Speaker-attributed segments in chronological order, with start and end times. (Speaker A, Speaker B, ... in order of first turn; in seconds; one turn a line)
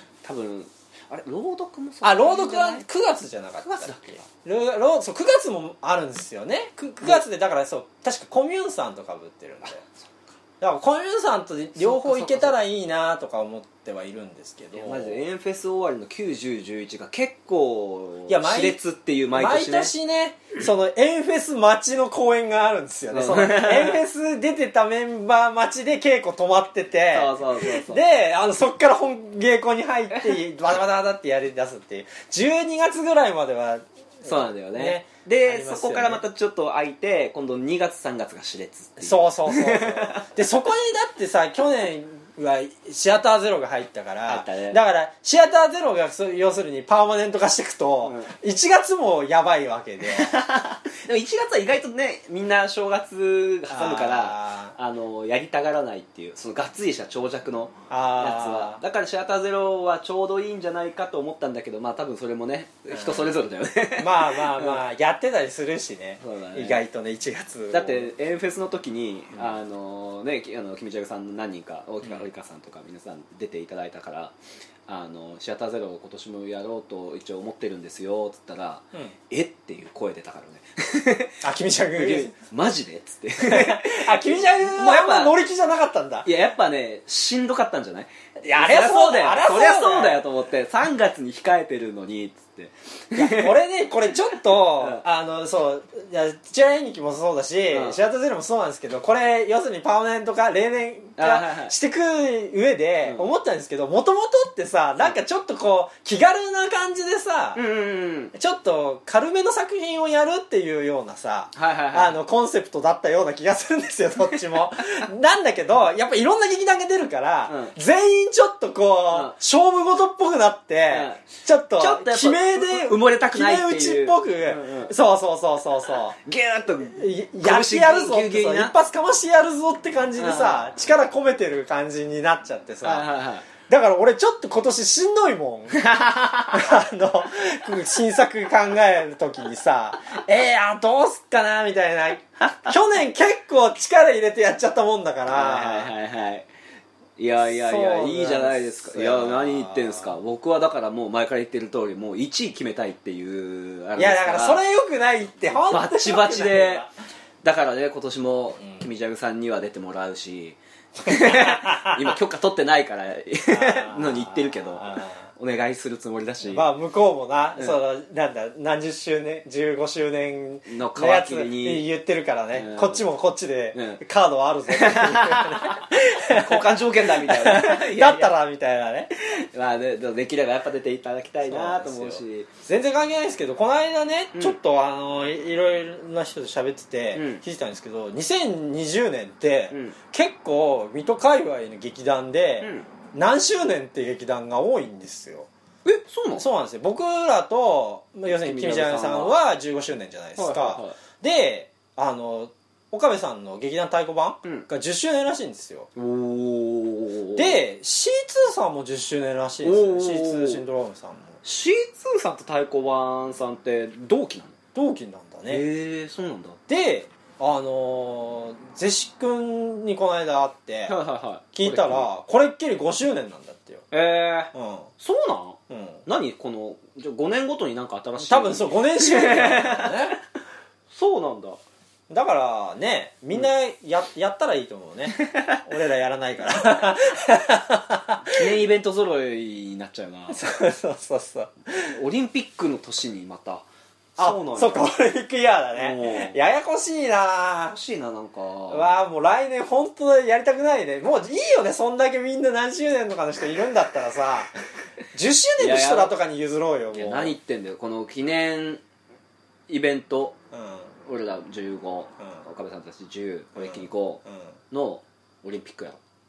Speaker A: 0.2-2.9
Speaker B: 2.0-9.8
Speaker A: 3.6-4.3
Speaker B: 10.6-15.2
Speaker A: 11.8-12.6
Speaker A: 14.7-19.9
Speaker B: 18.3-18.8
Speaker B: 19.3-36.2
Speaker A: 23.1-24.0
Speaker A: 27.1-28.0
Speaker A: 34.2-40.3
Speaker B: 39.0-50.4
Speaker A: 44.3-44.8
Speaker A: 48.0-48.3
Speaker A: 50.0-64.8
Speaker B: 53.7-54.8
Speaker B: 57.9-58.8
Speaker B: 62.9-63.3
Speaker B: 64.0-68.1
Speaker A: 66.2-66.8
Speaker A: 67.7-74.3
Speaker A: 74.9-81.4
Speaker B: 81.4-82.3
Speaker A: 82.0-85.3
Speaker B: 83.4-86.3
Speaker A: 86.2-93.6
Speaker B: 88.4-90.2
Speaker B: 93.2-107.6
Speaker A: 94.8-95.0
Speaker A: 97.7-98.0
Speaker A: 101.2-101.7
Speaker A: 107.5-108.3
Speaker B: 108.3-126.2
Speaker A: 111.5-112.2
Speaker A: 117.5-117.8
Speaker A: 119.1-119.4
Speaker A: 120.9-124.9
Speaker A: 126.2-128.8
Speaker B: 127.0-133.1
Speaker A: 130.2-130.6
Speaker A: 132.8-133.5
Speaker B: 133.6-135.8
Speaker A: 135.7-136.7
Speaker B: 136.5-145.9
Speaker A: 142.4-142.7
Speaker A: 145.3-146.5
Speaker A: 147.2-154.6
Speaker B: 147.4-150.2
Speaker B: 154.0-156.9
Speaker A: 155.5-156.9
Speaker A: 157.4-166.7
Speaker B: 161.0-162.2
Speaker B: 163.5-165.3
Speaker B: 166.4-179.1
Speaker A: 170.7-171.8
Speaker A: 172.5-173.1
Speaker A: 173.7-174.0
Speaker A: 174.7-178.3
Speaker A: 179.2-182.5
Speaker B: 181.4-195.5
Speaker A: 187.2-187.4
Speaker A: 192.6-192.9
Speaker A: 195.8-196.5
Speaker B: 196.4-205.9
Speaker A: 198.4-199.3
Speaker A: 200.4-201.0
Speaker A: 205.9-207.6
Speaker B: 207.3-211.4
Speaker A: 209.6-210.6
Speaker A: 211.4-214.6
Speaker B: 214.8-215.6
Speaker A: 215.5-216.6
Speaker B: 216.7-220.9
Speaker A: 220.9-222.1
Speaker B: 221.5-223.9
Speaker A: 223.9-230.2
Speaker B: 224.5-224.9
Speaker B: 225.7-226.0
Speaker B: 228.2-230.2
Speaker A: 230.9-231.6
Speaker B: 232.1-238.5
Speaker A: 235.2-235.6
Speaker A: 238.3-240.4
Speaker B: 240.3-241.9
Speaker A: 241.8-244.9
Speaker B: 244.2-247.8
Speaker A: 245.8-246.4
Speaker A: 247.7-248.9
Speaker B: 248.7-254.6
Speaker B: 255.1-257.4
Speaker A: 255.6-256.1
Speaker A: 256.9-258.8
Speaker A: 259.7-260.4
Speaker B: 260.5-260.9
Speaker A: 261.1-266.0
Speaker B: 263.6-264.5